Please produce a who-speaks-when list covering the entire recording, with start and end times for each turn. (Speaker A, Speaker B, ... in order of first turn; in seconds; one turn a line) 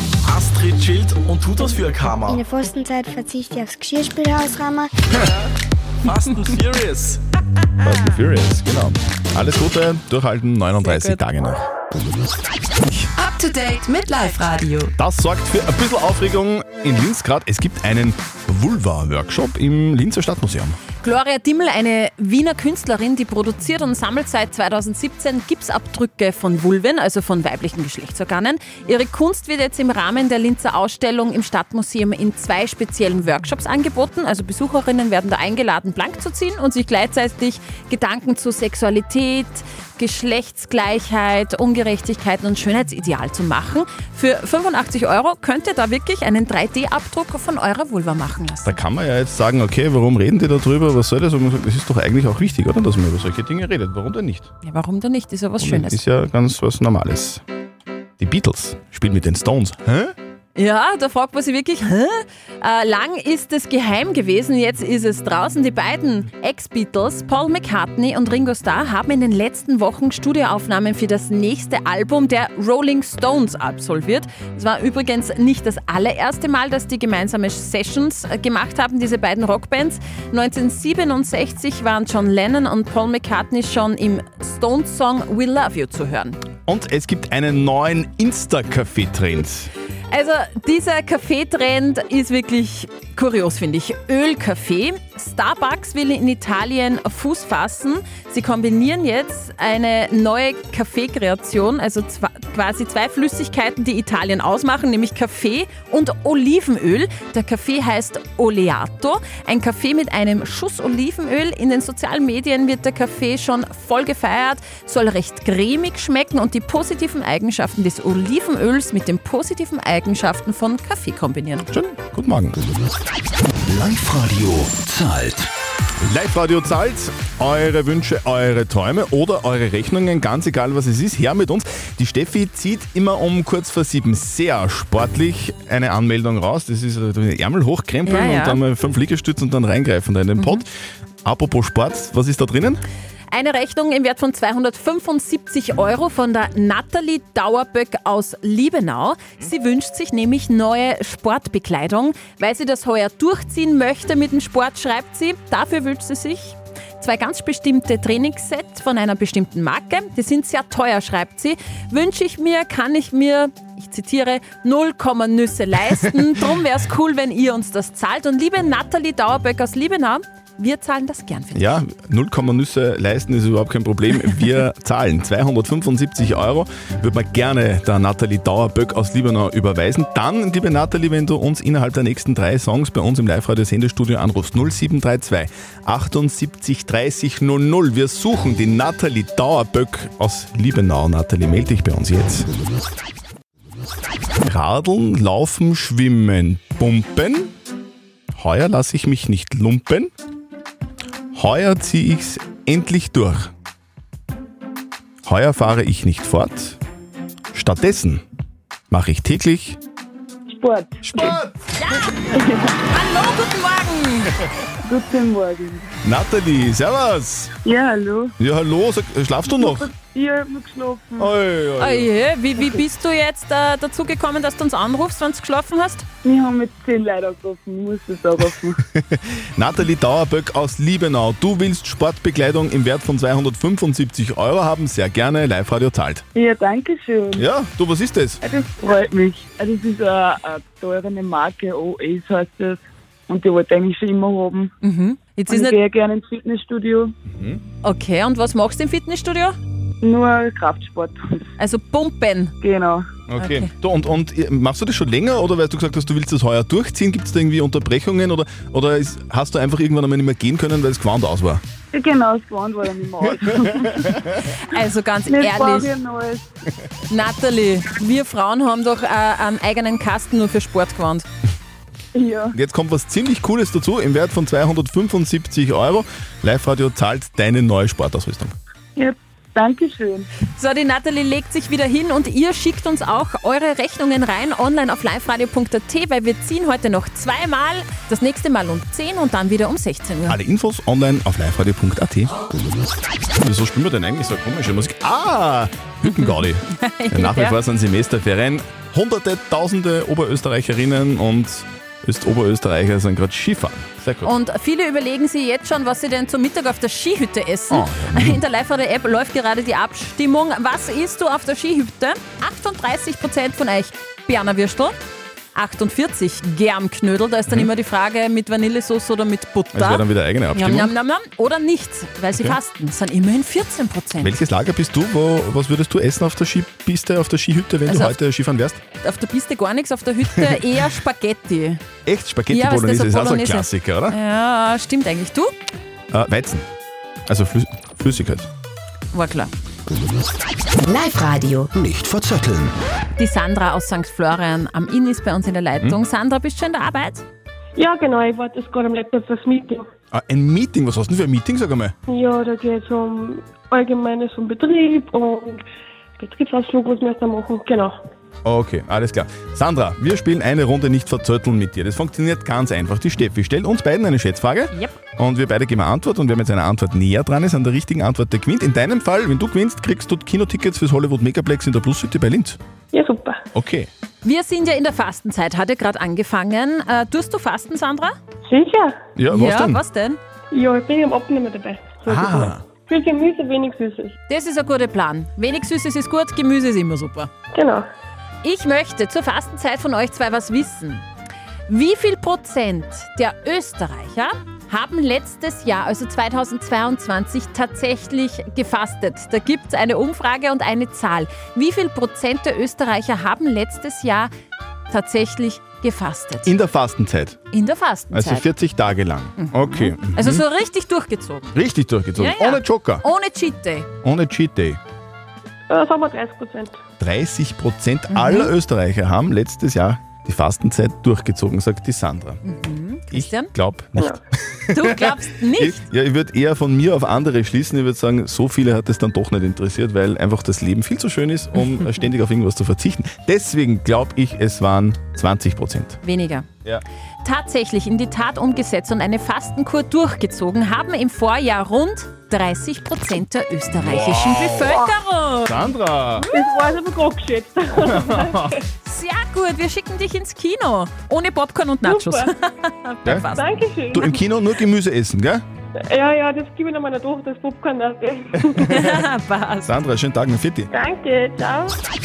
Speaker A: 0.2-2.5
Speaker B: 2.3-4.9
Speaker A: 5.1-5.5
Speaker A: 6.0-7.2
Speaker C: 7.8-11.7
Speaker D: 13.2-14.9
Speaker C: 15.0-20.8
Speaker E: 21.0-48.8
Speaker C: 48.6-54.5
Speaker E: 54.6-56.0
Speaker C: 55.6-57.4
Speaker C: 58.2-60.1
Speaker E: 60.5-86.4
Speaker C: 86.7-89.7
Speaker E: 90.1-121.7
Speaker C: 121.7-122.6
Speaker F: 123.6-125.5
Speaker C: 126.0-140.7
Speaker E: 138.1-138.6
Speaker C: 141.2-142.8
Speaker E: 143.3-171.7
Speaker C: 171.5-192.5
Speaker C: 194.4-197.5
Speaker C: 198.3-200.1
Speaker C: 201.3-203.5
Speaker C: 205.2-206.8
Speaker C: 207.5-208.2
Speaker C: 208.9-209.8
Speaker G: 210.5-211.3
Speaker C: 211.0-211.6
Speaker E: 211.8-212.1
Speaker G: 212.3-212.7
Speaker E: 212.9-214.3
Speaker G: 214.8-215.9
Speaker C: 216.0-217.5
Speaker G: 217.6-218.3
Speaker C: 218.4-219.9
Speaker G: 219.5-221.3
Speaker C: 221.2-222.1
Speaker E: 221.8-226.1
Speaker G: 226.2-228.8
Speaker C: 228.9-236.2
Speaker G: 236.3-237.4
Speaker C: 237.3-238.4
Speaker G: 238.4-244.7
Speaker E: 244.8-245.8
Speaker G: 245.5-247.1
Speaker C: 247.3-247.6
Speaker E: 247.8-249.6
Speaker G: 250.0-251.2
Speaker E: 251.6-252.5
Speaker G: 252.6-253.1
Speaker C: 253.3-261.6
Speaker E: 253.4-253.7
Speaker G: 261.9-264.0
Speaker E: 264.6-265.9
Speaker G: 265.3-266.5
Speaker E: 267.1-271.2
Speaker G: 272.1-272.5
Speaker C: 272.5-278.6
Speaker G: 278.9-280.3
Speaker E: 280.5-290.4
Speaker C: 290.3-292.3
Speaker C: 293.4-304.3
Speaker E: 296.2-297.6
Speaker E: 304.2-314.9
Speaker C: 307.7-308.4
Speaker E: 315.5-324.3
Speaker C: 319.7-320.9
Speaker C: 324.2-328.8
Speaker E: 327.9-328.1
Speaker E: 329.0-331.8
Speaker C: 332.0-334.2
Speaker E: 332.5-335.5
Speaker C: 336.1-336.6
Speaker C: 337.3-338.5
Speaker E: 339.1-339.5
Speaker D: 340.9-341.7
Speaker F: 341.7-342.7
Speaker E: 343.2-347.2
Speaker H: 347.8-349.9
Speaker C: 350.1-351.9
Speaker H: 352.1-355.6
Speaker H: 356.2-357.9
Speaker C: 358.4-372.6
Speaker H: 372.9-373.4
Speaker C: 373.5-373.9
Speaker E: 374.2-378.1
Speaker H: 378.5-378.9
Speaker C: 379.2-379.8
Speaker E: 379.3-380.2
Speaker H: 380.5-384.1
Speaker C: 382.1-382.6
Speaker E: 384.3-387.3
Speaker H: 387.5-387.9
Speaker E: 388.4-391.0
Speaker E: 391.7-404.3
Speaker E: 404.9-406.5
Speaker C: 406.4-407.4
Speaker E: 407.5-408.5
Speaker C: 408.1-410.4
Speaker E: 409.4-411.5
Speaker C: 411.5-413.0
Speaker E: 412.1-413.9
Speaker C: 414.0-414.8
Speaker H: 415.7-416.8
Speaker C: 417.0-422.4
Speaker E: 418.1-418.5
Speaker E: 422.4-423.5
Speaker C: 423.1-436.0
Speaker E: 424.7-425.8
Speaker E: 436.0-436.4
Speaker E: 437.2-445.5
Speaker C: 443.7-444.9
Speaker C: 445.4-446.3
Speaker H: 446.2-448.6
Speaker C: 447.8-448.6
Speaker E: 448.8-453.4
Speaker H: 451.8-452.3
Speaker H: 453.3-454.2
Speaker C: 453.9-455.4
Speaker H: 455.9-458.8
Speaker E: 458.7-459.7
Speaker C: 459.6-460.7
Speaker H: 460.7-461.8